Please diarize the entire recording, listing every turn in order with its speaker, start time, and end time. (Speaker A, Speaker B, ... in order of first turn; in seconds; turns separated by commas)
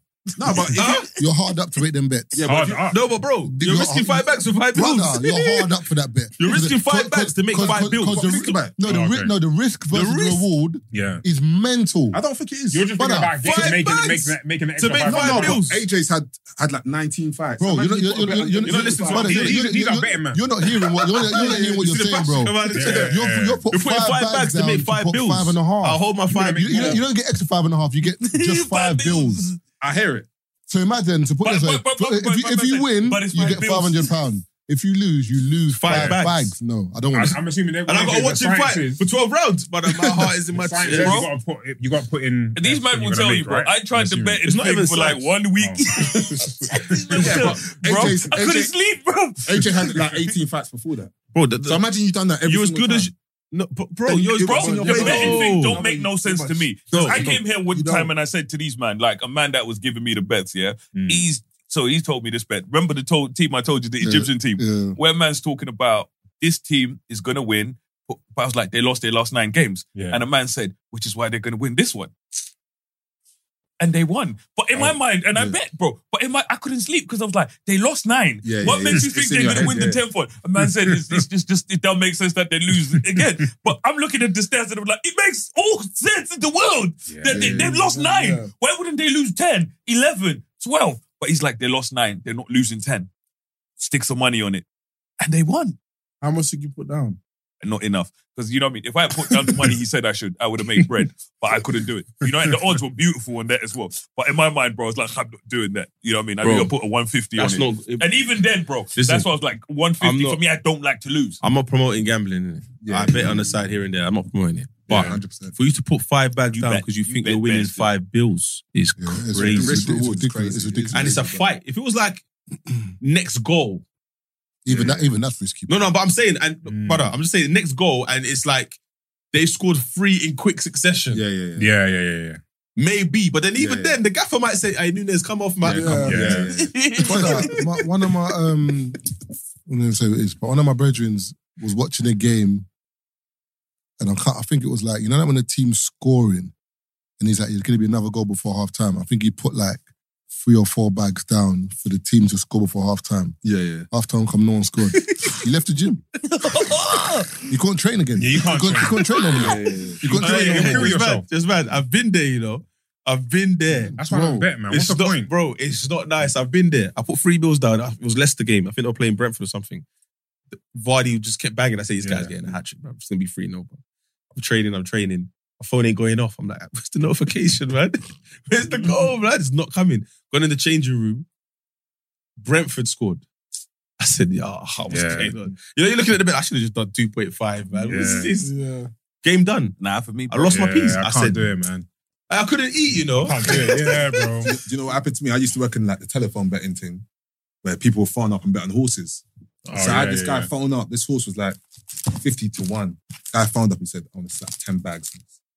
Speaker A: 0.4-1.2, Speaker B: 0.4-2.5, Speaker C: 0.8-1.1, Speaker A: 2.4-2.8, Speaker C: 2.5-5.7, Speaker D: 2.5-3.0, Speaker B: 3.4-12.2, Speaker C: 6.4-8.6, Speaker A: 8.0-8.8, Speaker D: 8.8-9.3, Speaker C: 9.9-10.5, Speaker D: 10.9-11.2, Speaker A: 12.1-13.0, Speaker D: 12.7-15.6, Speaker B: 12.9-13.5, Speaker C: 13.4-15.8, Speaker A: 15.0-19.5, Speaker B: 17.6-29.5, Speaker C: 18.6-19.6, Speaker D: 19.1-20.5, Speaker C: 21.1-27.0, Speaker A: 21.3-22.1, Speaker A: 22.6-23.1, Speaker D: 22.7-23.6, Speaker D: 26.3-27.1, Speaker E: 28.2-29.6, Speaker A: 29.8-30.3, Speaker B: 30.7-37.4, Speaker E: 31.4-34.1, Speaker C: 35.7-36.5, Speaker D: 35.9-36.2, Speaker D: 37.1-39.0, Speaker C: 37.9-41.2, Speaker D: 40.5-44.4, Speaker E: 40.9-41.3, Speaker E: 42.5-50.2, Speaker C: 44.4-45.3, Speaker A: 47.1-48.7, Speaker A: 49.5-53.1, Speaker C: 51.3-51.9, Speaker C: 52.4-55.8, Speaker E: 54.1-72.1, Speaker A: 54.5-55.2, Speaker F: 54.6-58.1, Speaker A: 56.9-57.3, Speaker C: 56.9-57.3, Speaker D: 61.0-61.3, Speaker B: 64.0-65.0, Speaker D: 70.0-70.2, Speaker E: 73.8-93.1, Speaker A: 74.8-75.6, Speaker A: 78.4-80.0, Speaker D: 79.1-79.8, Speaker D: 80.6-81.2, Speaker D: 87.1-87.6, Speaker A: 87.3-87.8, Speaker F: 87.5-88.5, Speaker E: 93.8-94.7, Speaker E: 95.2-95.8, Speaker F: 96.2-97.2, Speaker E: 97.6-111.4, Speaker C: 106.4-106.7, Speaker C: 107.3-108.1, Speaker C: 109.0-109.3, Speaker C: 110.0-110.4, Speaker C: 111.4-119.8, Speaker A: 112.8-113.5, Speaker D: 114.9-115.2, Speaker A: 114.9-115.6, Speaker E: 116.5-117.9, Speaker B: 119.0-121.3, Speaker A: 119.3-121.5, Speaker C: 120.9-122.2, Speaker C: 123.0-123.8, Speaker B: 124.7-125.9, Speaker A: 124.7-125.1, Speaker C: 125.7-128.8, Speaker D: 126.7-127.1, Speaker C: 129.3-131.2, Speaker A: 131.1-131.7, Speaker D: 131.6-132.4, Speaker C: 132.8-136.4, Speaker A: 133.6-134.0, Speaker D: 135.6-136.5, Speaker F: 135.6-136.5, Speaker A: 135.8-137.5, Speaker E: 136.7-137.6, Speaker B: 137.1-139.0, Speaker B: 139.7-142.7, Speaker B: 144.0-146.5, Speaker B: 147.2-149.8, Speaker B: 150.3-153.4, Speaker C: 153.4-153.9, Speaker B: 153.9-156.0, Speaker E: 156.3-157.3, Speaker B: 157.5-160.9, Speaker D: 158.2-159.2, Speaker C: 159.4-163.9, Speaker A: 159.7-160.0, Speaker D: 160.1-161.3, Speaker B: 164.0-164.5, Speaker D: 164.0-165.3, Speaker C: 164.7-169.8, Speaker C: 170.5-173.8, Speaker D: 172.0-172.3, Speaker C: 174.3-181.3, Speaker C: 182.4-183.2, Speaker C: 184.0-188.5, Speaker D: 184.9-185.4, Speaker D: 187.8-188.3, Speaker F: 188.4-188.9, Speaker C: 189.2-189.7, Speaker E: 189.8-190.6, Speaker C: 190.3-191.4, Speaker D: 190.5-191.9, Speaker C: 192.3-193.9, Speaker D: 193.2-194.6, Speaker A: 193.4-193.8, Speaker A: 194.4-197.0, Speaker A: 197.6-201.6, Speaker D: 199.7-200.5, Speaker A: 202.1-205.2